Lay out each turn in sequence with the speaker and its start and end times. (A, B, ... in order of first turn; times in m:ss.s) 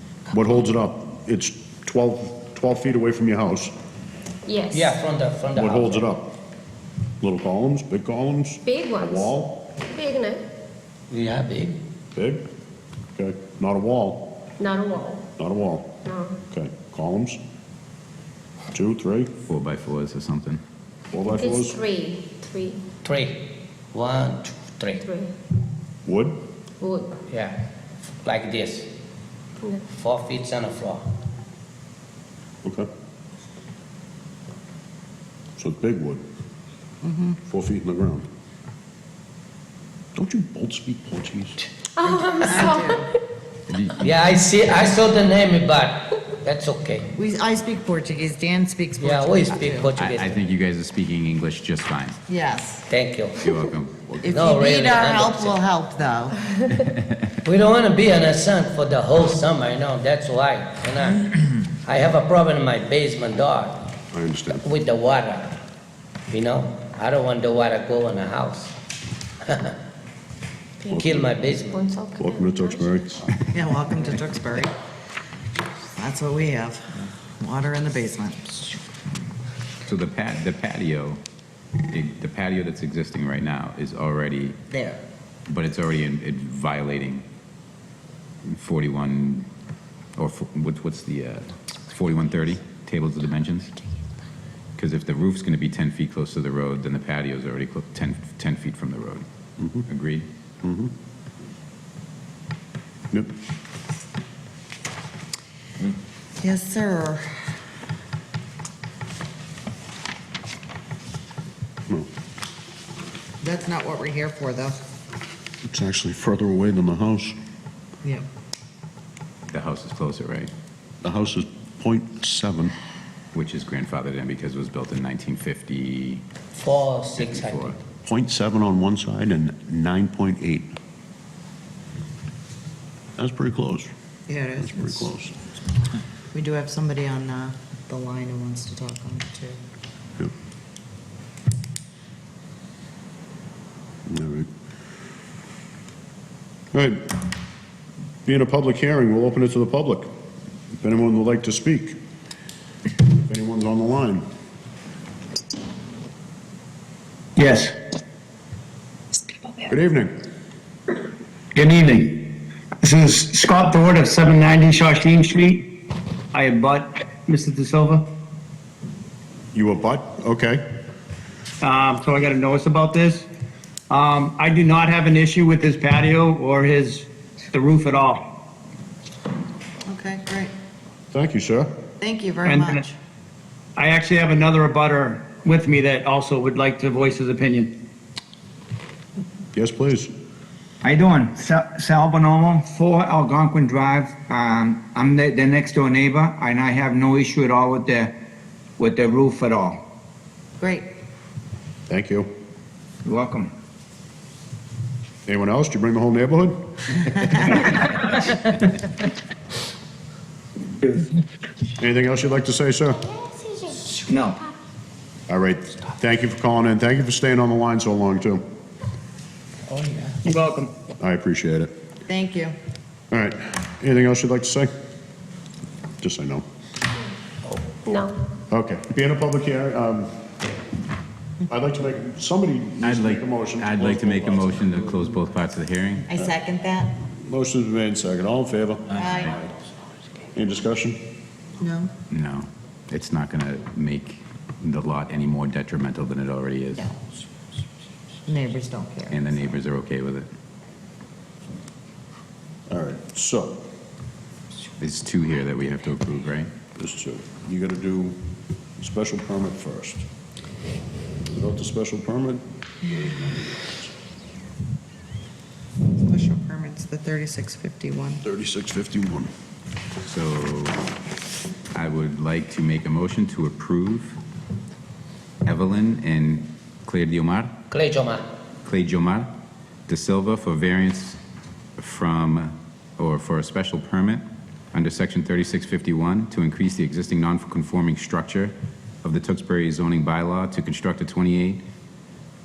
0:00.3-0:03.7 A
0:04.5-0:05.0 B
0:04.7-0:06.0 C
0:05.5-0:06.3 A
0:07.2-0:09.7 A
0:08.6-0:10.4 B
0:11.1-0:11.8 C
0:12.1-0:12.4 A
0:13.2-0:14.4 A
0:14.6-0:15.2 B
0:15.4-0:15.9 A
0:16.0-0:16.4 B
0:16.5-0:17.4 A
0:18.7-0:19.3 A
0:19.4-0:20.6 D
0:21.1-0:21.8 A
0:21.3-0:22.8 B
0:23.0-0:25.0 C
0:25.0-0:25.3 B
0:26.0-0:26.4 A
0:26.8-0:27.2 B
0:27.3-0:27.6 C
0:28.2-0:28.9 C
0:29.9-0:31.0 C
0:35.6-0:36.2 A
0:37.0-0:37.4 E
0:37.5-0:38.3 A
0:40.1-0:41.6 A
0:42.0-0:43.0 B
0:42.0-0:43.1 E
0:42.4-0:42.7 C
0:43.7-0:44.1 D
0:44.0-0:47.1 C
0:47.2-0:49.9 E
0:49.0-0:50.4 C
0:49.9-0:52.2 D
0:52.3-0:52.9 E
0:52.9-0:53.6 C
0:53.4-0:54.2 D
0:54.2-0:55.6 C
0:54.2-0:56.4 E
0:57.4-1:03.9 C
1:04.1-1:04.6 A
1:04.5-1:05.6 C
1:06.3-1:08.7 C
1:09.4-1:09.8 C
1:10.8-1:13.0 B
1:10.9-1:11.8 C
1:12.2-1:13.2 A
1:13.5-1:14.7 E
1:16.0-1:18.8 E
1:19.8-1:21.2 D
1:21.9-1:24.6 D
1:24.7-1:25.0 E
1:25.4-1:27.2 D
1:28.4-1:29.5 D
1:30.2-1:33.7 D
1:34.8-1:39.2 D
1:39.6-1:39.8 A
1:39.9-1:40.3 D
1:40.6-1:40.9 A
1:46.4-1:47.2 E
1:53.4-1:54.8 E
1:55.6-1:57.3 A
1:59.5-2:00.5 D
2:01.0-2:02.7 A
2:03.3-2:06.2 D
2:06.5-2:07.7 C
2:07.2-2:07.8 D
2:08.0-2:10.7 A
2:13.2-2:13.9 A
2:14.3-2:15.1 E
2:14.6-2:15.4 A
2:16.3-2:19.6 E
2:24.1-2:24.5 A
2:26.7-2:27.2 A
2:28.2-2:30.1 A
2:30.8-2:32.0 A
2:33.1-2:34.2 A
2:37.4-2:37.7 F
2:39.7-2:40.2 A
2:41.5-2:42.3 F
2:42.8-2:45.7 F
2:46.3-2:48.1 F
2:49.5-2:50.6 A
2:51.6-2:53.2 F
2:53.9-2:58.2 F
2:59.9-3:00.5 E
3:01.1-3:01.7 A
3:02.0-3:02.9 E
3:02.4-3:02.8 F
3:03.8-3:07.7 F
3:09.5-3:10.1 A
3:10.8-3:18.1 G
3:18.8-3:19.8 G
3:20.6-3:20.9 E
3:21.9-3:22.3 A
3:23.0-3:23.5 G
3:25.3-3:27.5 A
3:31.8-3:33.1 A
3:33.2-3:34.0 B
3:35.3-3:38.4 A
3:40.2-3:40.7 F
3:41.0-3:41.7 A
3:42.1-3:42.5 E
3:43.1-3:44.7 A
3:46.0-3:46.4 A
3:47.8-3:48.2 B
3:48.5-3:50.1 A
3:51.5-3:54.7 A
3:52.8-3:56.1 D
3:56.1-3:56.9 E
3:57.2-3:59.2 A
3:58.9-3:59.4 E
4:00.3-4:01.0 A
4:01.6-4:01.9 E
4:02.1-4:06.9 D
4:08.2-4:09.3 E
4:09.1-4:10.3 D
4:12.7-4:13.6 A
4:14.8-4:16.5 D
4:16.8-4:18.2 A
4:18.8-4:20.0 A
4:21.3-4:23.9 A
4:26.0-4:28.2 E
4:28.2-4:29.3 A
4:30.0-4:30.8 D
4:31.7-4:34.2 D
4:35.4-4:37.5 D
4:37.7-4:38.2 C
4:38.6-4:39.3 D
4:39.9-4:41.2 D
4:41.8-4:51.6 D